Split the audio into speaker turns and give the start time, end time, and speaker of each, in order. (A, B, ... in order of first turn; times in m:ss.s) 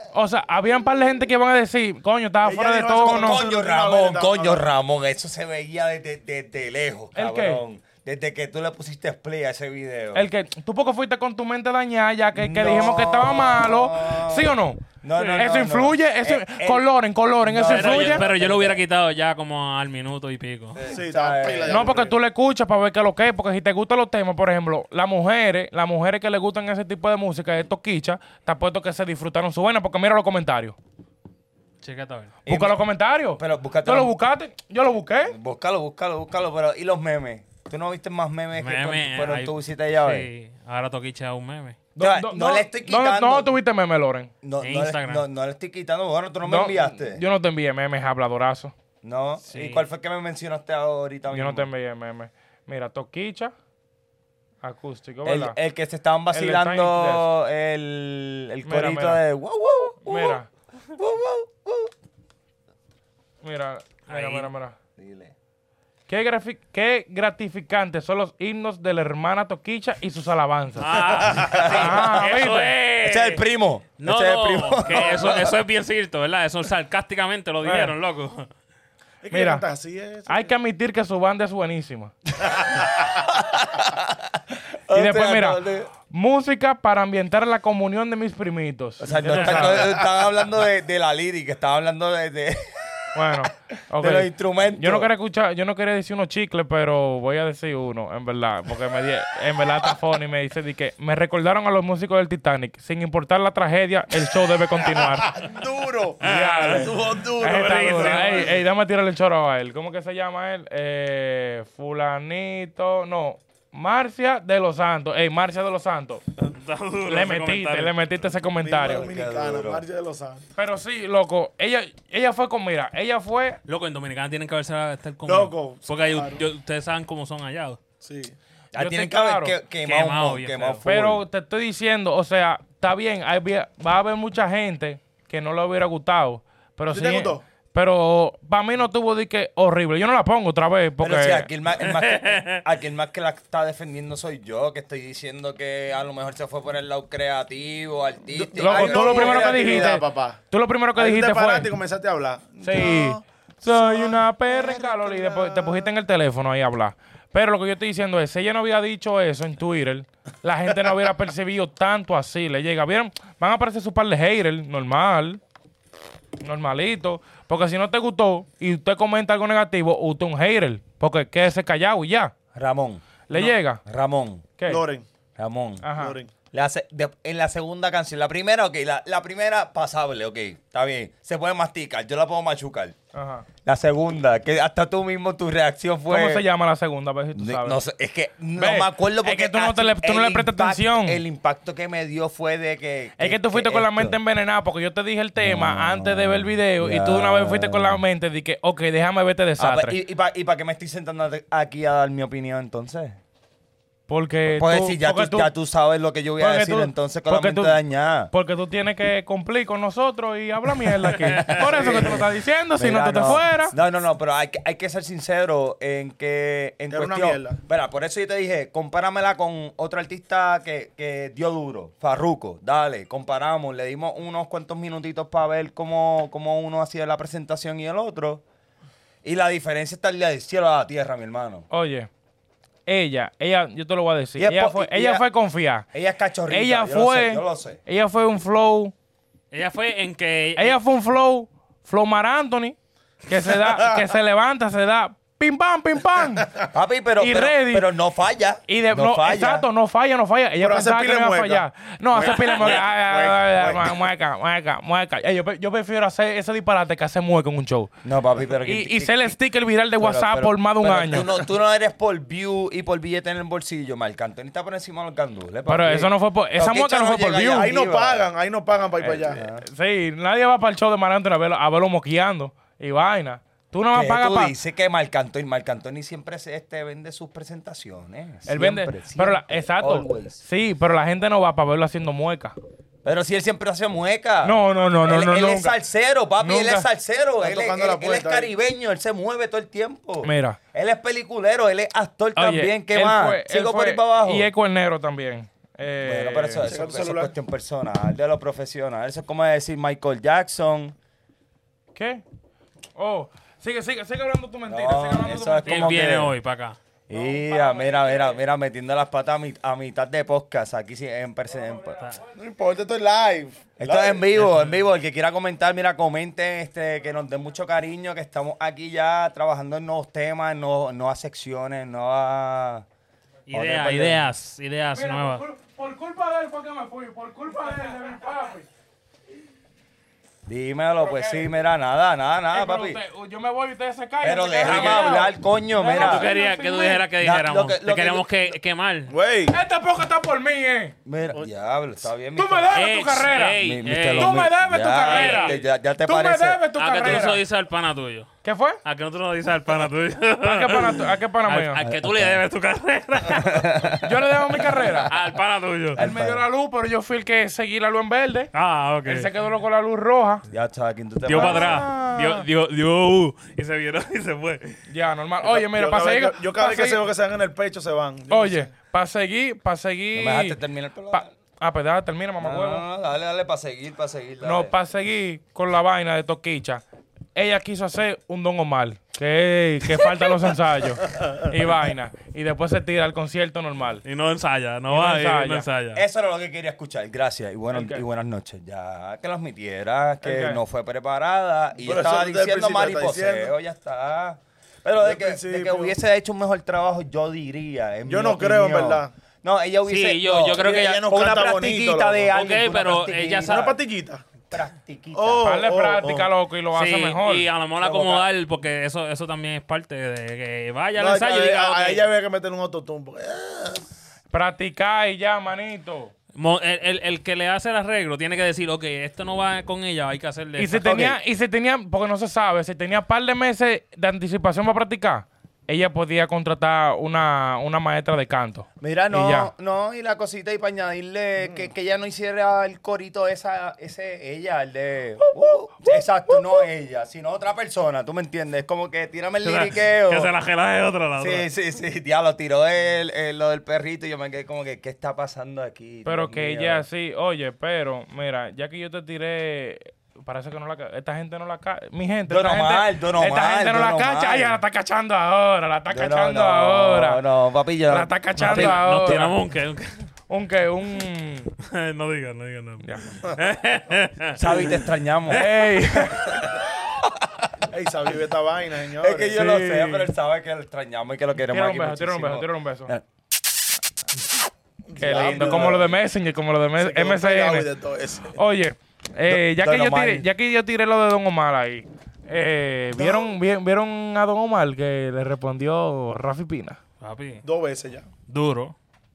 0:00.1-0:03.4 A
0:02.4-0:04.6 B
0:03.0-0:10.3 C
0:07.2-0:07.6 A
0:10.1-0:18.2 A
0:12.4-0:16.9 C
0:17.4-0:18.8 C
0:17.6-0:20.9 D
0:20.8-0:22.0 C
0:20.9-0:22.2 B
0:21.7-0:30.8 A
0:31.8-0:32.4 D
0:32.5-0:32.8 C
0:32.5-0:35.4 A
0:33.4-0:34.2 C
0:35.2-0:40.3 C
0:38.6-0:41.8 D
0:42.0-0:44.3 A
0:42.0-0:43.6 C
0:44.4-0:47.2 C
0:44.6-0:45.2 D
0:46.4-0:48.7 A
0:49.0-0:51.7 C
0:49.5-0:49.9 D
0:51.3-0:53.5 A
0:54.6-0:55.6 A
0:55.2-1:00.4 C
0:56.3-0:57.3 A
0:58.7-0:59.2 A
1:00.0-1:00.5 A
1:01.0-1:01.9 C
1:03.4-1:04.8 A
1:04.1-1:04.5 D
1:05.0-1:05.3 C
1:06.1-1:11.0 A
1:10.8-1:13.4 D
1:11.5-1:12.1 C
1:11.6-1:12.7 A
1:13.0-1:15.6 C
1:14.0-1:18.5 D
1:17.6-1:17.9 A
1:19.2-1:20.5 B
1:19.3-1:19.7 A
1:20.3-1:22.1 A
1:22.6-1:23.0 B
1:22.7-1:24.2 C
1:24.9-1:25.9 C
1:24.9-1:30.0 A
1:29.0-1:33.5 C
1:29.3-1:30.0 B
1:33.2-1:45.5 A
1:34.0-1:35.1 C
1:44.8-1:48.6 B
1:46.2-1:56.2 A
1:46.2-1:46.9 D
1:48.0-1:48.2 D
1:56.5-1:58.0 D
1:57.1-1:59.1 A
1:58.6-2:00.5 B
1:58.9-1:59.8 C
2:00.6-2:03.6 A
2:03.7-2:07.8 D
2:05.2-2:06.4 B
2:08.0-2:08.4 B
2:08.7-2:11.2 C
2:08.8-2:09.6 A
2:09.8-2:10.8 D
2:10.9-2:21.5 A
2:16.9-2:17.4 B
2:21.0-2:30.0 C
2:21.8-2:22.6 D
2:28.3-2:30.4 B
2:28.6-2:31.7 A
2:31.0-2:35.9 B
2:32.6-2:45.4 A
2:46.4-2:52.3 A
2:52.6-2:53.0 C
2:53.3-2:53.8 A
2:53.8-2:54.4 C
2:54.6-2:54.8 A
2:54.7-2:55.1 B
2:55.4-2:55.8 C
2:55.8-2:56.2 A
2:56.0-2:56.3 B
2:56.5-3:03.0 C
3:03.1-3:03.5 A
3:03.6-3:06.5 C
3:06.1-3:07.8 A
3:07.4-3:14.2 C
3:08.6-3:11.2 A
3:13.2-3:20.0 A
3:15.4-3:18.0 C
3:19.6-3:23.2 C
3:24.1-3:25.5 A
3:24.5-3:28.3 C
3:26.4-3:27.8 A
3:28.3-3:33.7 A
3:31.2-3:31.6 D
3:31.2-3:32.2 C
3:31.7-3:32.0 B
3:32.8-3:48.4 C
3:36.9-3:37.6 B
3:49.2-3:51.7 C
3:51.7-3:52.1 A
3:52.9-3:55.9 A
3:54.4-3:55.2 C
3:55.9-3:57.8 C
3:56.5-3:58.9 A
3:59.5-4:00.8 D
4:00.6-4:02.8 A
4:03.3-4:07.9 A
4:03.6-4:03.9 B
4:06.7-4:09.7 C
4:08.7-4:17.9 A
4:10.6-4:14.0 B
4:18.0-4:19.4 C
4:18.6-4:21.3 A
4:20.0-4:28.3 C
4:25.7-4:27.7 A
4:27.5-4:29.4 B
4:29.0-4:29.7 C
4:29.4-4:34.5 A
4:33.9-4:40.4 C
4:38.5-4:42.6 A
4:43.0-4:54.5 C
4:44.4-4:45.8 A
4:46.4-4:46.9 A
4:47.4-4:48.5 B
4:50.2-4:50.6 A
4:52.4-4:56.6 A
4:56.0-5:01.0 C
4:56.6-4:57.3 B
5:02.0-5:02.2 A
5:03.0-5:06.0 A
5:04.7-5:06.4 C
5:05.7-5:06.8 D
5:07.1-5:12.1 C
5:07.5-5:08.3 A
5:12.0-5:12.2 D
5:12.4-5:14.3 B
5:13.8-5:22.8 C
5:14.4-5:14.8 D
5:23.5-5:25.4 D
5:23.5-5:24.2 C
5:24.9-5:28.7 A
5:30.5-5:33.0 C
5:31.0-5:31.4 A
5:32.5-5:37.1 A
5:34.2-5:36.3 C
5:34.6-5:35.1 D
5:35.9-5:39.1 D
5:37.2-5:38.5 C
5:39.1-5:39.6 B
5:39.5-5:41.0 A
5:41.0-5:42.8 C
5:42.4-5:43.6 A
5:42.7-5:45.6 D
5:43.5-5:47.3 C
5:44.2-5:47.4 A
5:46.7-5:53.9 D
5:48.4-5:48.8 A
5:50.4-5:51.8 A
5:51.8-5:52.4 C
5:53.4-5:54.0 C
5:54.0-5:55.1 A
5:55.1-5:56.0 D
5:56.0-5:56.4 C
5:56.0-5:58.5 A
5:58.5-5:59.3 D
5:59.1-6:00.4 A
6:00.5-6:01.8 C
6:01.2-6:04.8 D
6:01.3-6:02.4 A
6:04.9-6:07.0 A
6:05.4-6:08.7 B
6:08.3-6:10.6 A
6:10.1-6:11.3 C
6:11.1-6:12.8 A
6:12.4-6:14.7 C
6:14.4-6:16.8 A
6:17.4-6:24.0 A
6:24.0-6:26.0 D
6:24.9-6:25.7 A
6:25.9-6:43.8 C
6:27.7-6:28.0 A
6:30.2-6:30.6 A
6:31.8-6:33.5 B
6:35.0-6:35.9 B
6:38.1-6:39.1 B
6:39.9-6:41.3 D
6:40.6-6:42.3 B
6:42.3-6:43.7 D
6:43.5-6:44.2 B
6:44.5-6:45.5 C
6:45.2-6:46.3 B
6:45.4-6:47.5 A
6:46.7-6:52.1 D
6:47.8-6:48.2 C
6:51.0-6:53.9 B
6:54.3-6:56.1 A
6:56.3-7:01.1 D
7:00.6-7:09.5 A
7:08.8-7:20.3 C
7:15.8-7:16.4 A
7:19.4-7:21.5 D
7:21.2-7:26.8 C
7:26.0-7:37.2 A
7:32.3-7:34.6 C
7:35.9-7:39.3 C
7:37.9-7:39.3 A
7:38.4-7:40.1 D
7:40.3-7:41.5 A
7:41.6-7:44.6 D
7:42.8-7:43.1 A
7:44.4-7:45.5 C
7:45.3-7:46.6 A
7:46.2-7:46.6 C
7:47.7-7:49.4 B
7:49.0-7:53.0 C
7:49.3-7:50.1 A
7:51.5-7:52.9 A
7:54.9-7:56.0 B
7:55.0-7:57.7 A
7:55.1-7:55.9 C
7:56.8-7:58.4 B
7:58.4-8:06.8 A
7:59.3-8:00.3 C
8:02.9-8:03.4 B
8:07.0-8:07.4 D
8:07.4-8:08.1 B
8:08.3-8:08.8 D